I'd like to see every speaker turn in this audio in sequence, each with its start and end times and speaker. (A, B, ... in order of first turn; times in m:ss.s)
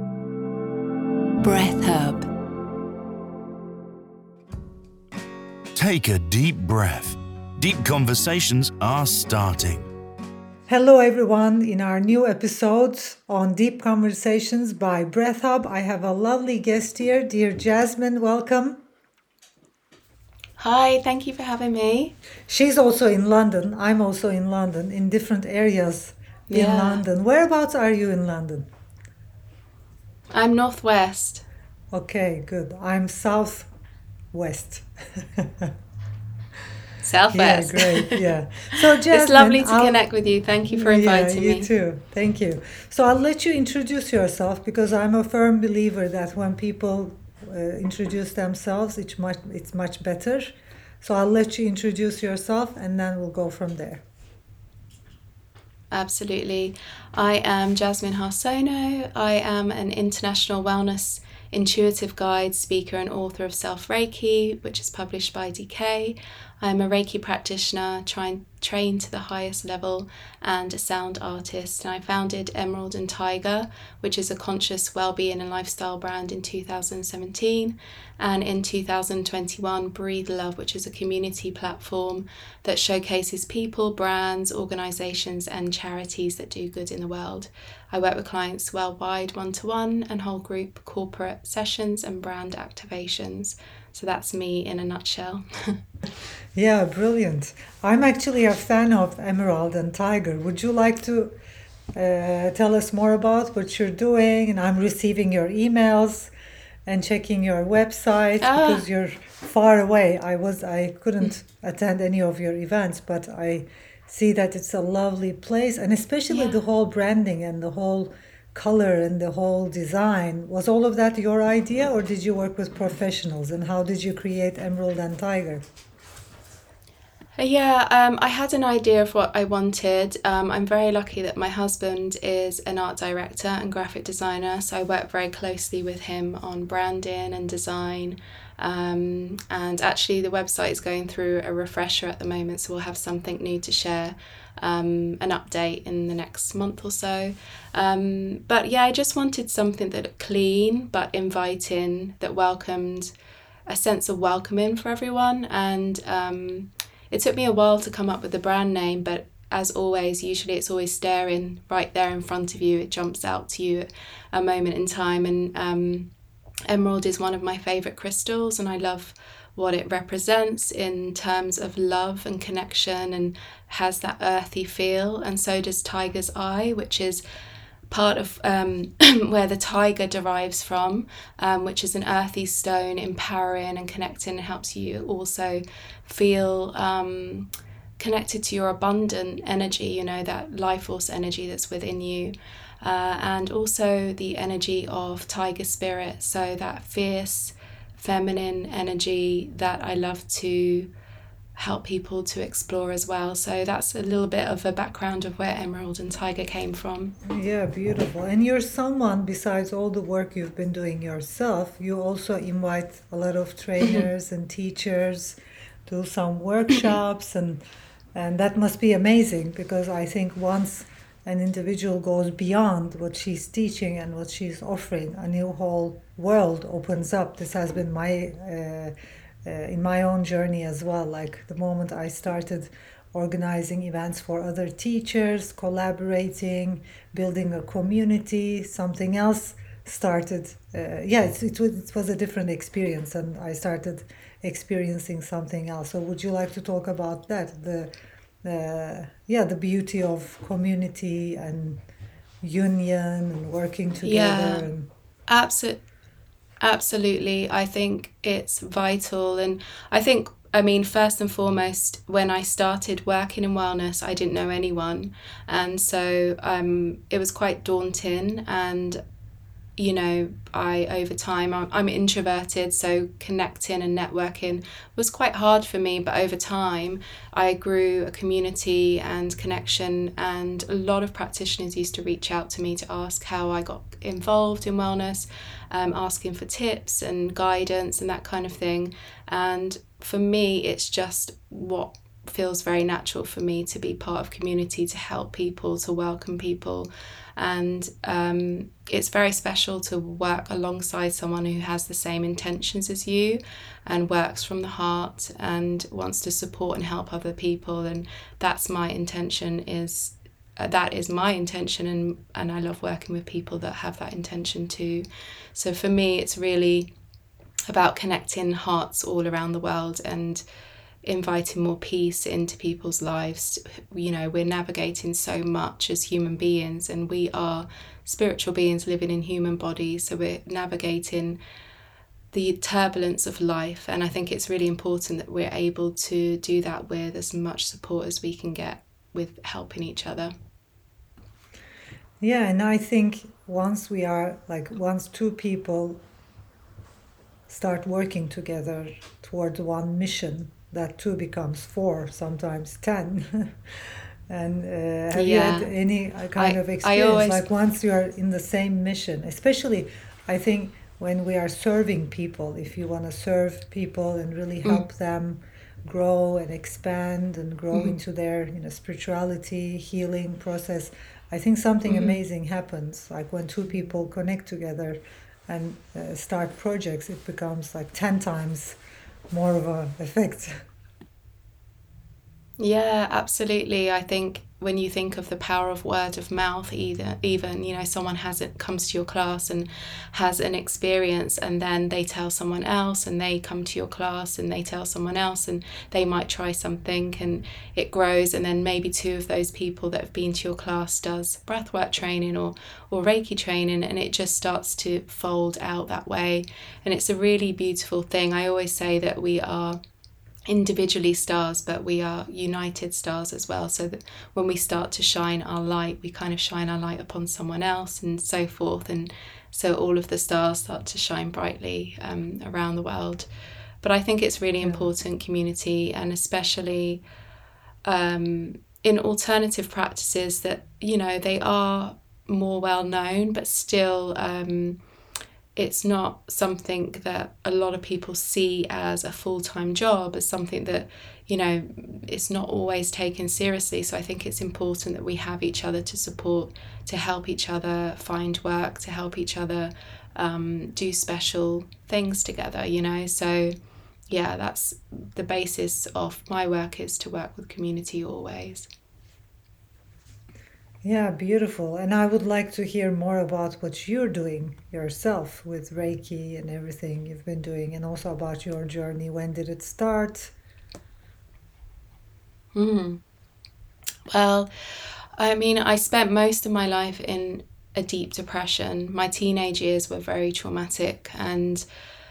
0:01.4-0:02.3 A
0:05.8-0:09.9 B
0:10.7-0:18.8 C
0:20.6-0:22.2 A
0:22.5-0:28.7 C
0:26.5-0:27.0 A
0:30.3-0:31.4 A
0:31.9-0:33.7 C
0:34.3-0:35.7 C
0:37.0-0:41.7 A
0:37.3-0:40.0 C
0:40.7-0:54.0 C
0:55.9-1:35.8 A
1:36.6-1:41.4 C
1:41.9-1:46.3 C
1:46.9-2:05.6 C
1:48.4-1:48.8 A
2:07.4-2:33.1 A
2:33.7-2:46.1 A
2:46.7-2:57.2 A
2:57.9-3:07.5 A
3:08.0-3:20.9 A
3:21.6-3:27.2 A
3:27.2-3:37.6 C
3:38.2-3:48.9 C
3:49.4-4:11.8 C
4:12.4-4:14.9 C
4:14.0-4:14.7 A
4:15.3-4:15.8 A
4:16.6-4:29.0 A
4:29.8-5:16.9 A
5:17.7-5:20.4 A
5:21.0-5:31.4 A
5:32.3-5:40.3 A
5:42.2-5:46.0 C
5:47.5-6:18.8 C
5:55.1-5:55.7 A
5:56.4-5:57.4 A
6:11.9-6:12.2 A
6:19.3-6:20.6 C
6:22.6-6:49.8 A
6:50.5-7:03.3 A
7:03.8-7:07.0 A
7:04.6-7:04.9 C
7:07.9-7:14.8 A
7:15.6-7:33.5 A
7:34.1-7:38.7 A
7:40.8-7:50.3 C
7:52.6-7:53.0 A
7:54.1-8:01.6 A